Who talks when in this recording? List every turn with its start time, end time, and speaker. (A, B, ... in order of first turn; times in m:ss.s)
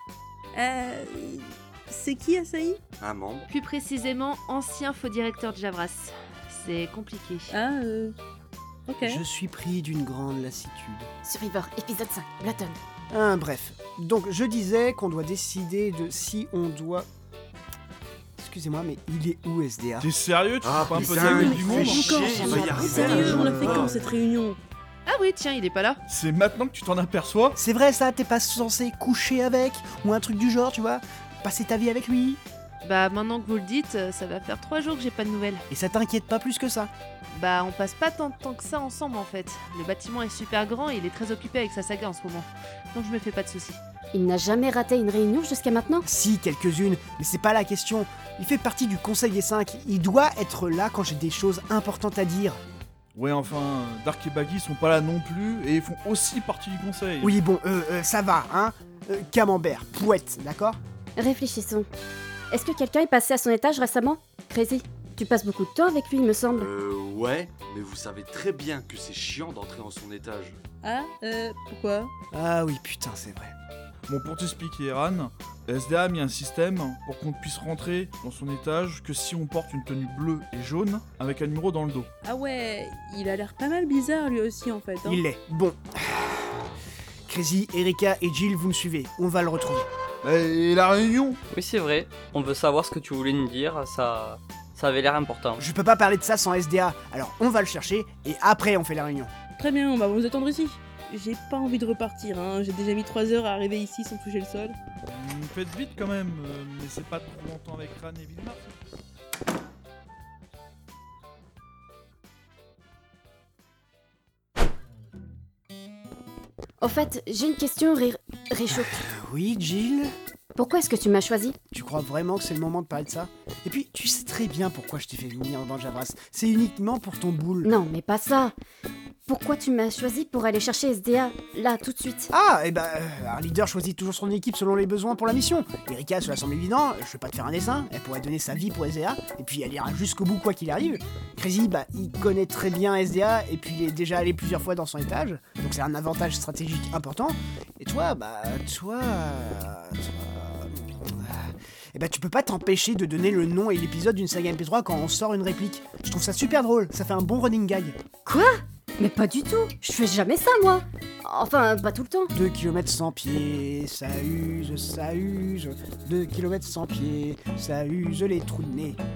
0:00.5-0:02.8 A
0:03.0-0:03.5 B
0:03.5-0:07.5 C
0:07.5-0:08.1 A
0:08.9-0:09.2 A
0:09.0-0:11.1 D
0:11.2-0:12.8 E
0:13.1-0:17.1 D
0:18.4-0:20.1 D
0:20.0-0:22.0 F
0:20.6-0:24.0 B
0:20.9-0:23.9 D
0:21.3-0:24.6 A
0:25.0-0:26.0 C
0:26.1-0:27.6 F
0:27.6-0:32.4 D
0:32.8-0:35.6 C
0:35.7-0:36.9 D
0:37.3-0:43.8 C
0:44.1-0:46.0 E
0:46.0-0:52.6 D
0:53.1-0:57.3 F
0:57.2-1:00.8 D
1:01.2-1:01.8 E
1:02.5-1:06.7 E
1:06.5-1:10.6 B
1:10.8-1:12.1 A
1:12.3-1:13.5 D
1:14.1-1:22.1 F
1:22.2-1:25.2 A
1:25.0-1:26.6 D
1:27.3-1:29.9 D
1:30.2-1:31.4 F
1:31.5-1:35.6 G
1:35.6-1:39.3 D
1:39.6-1:44.8 A
1:45.0-1:48.8 F
1:56.8-1:59.1 E
1:58.7-2:00.1 D
2:00.6-2:01.6 E
2:01.7-2:07.7 D
2:07.6-2:08.5 E
2:09.3-2:12.3 E
2:12.3-2:38.0 D
2:38.2-2:42.3 E
2:42.3-2:49.0 D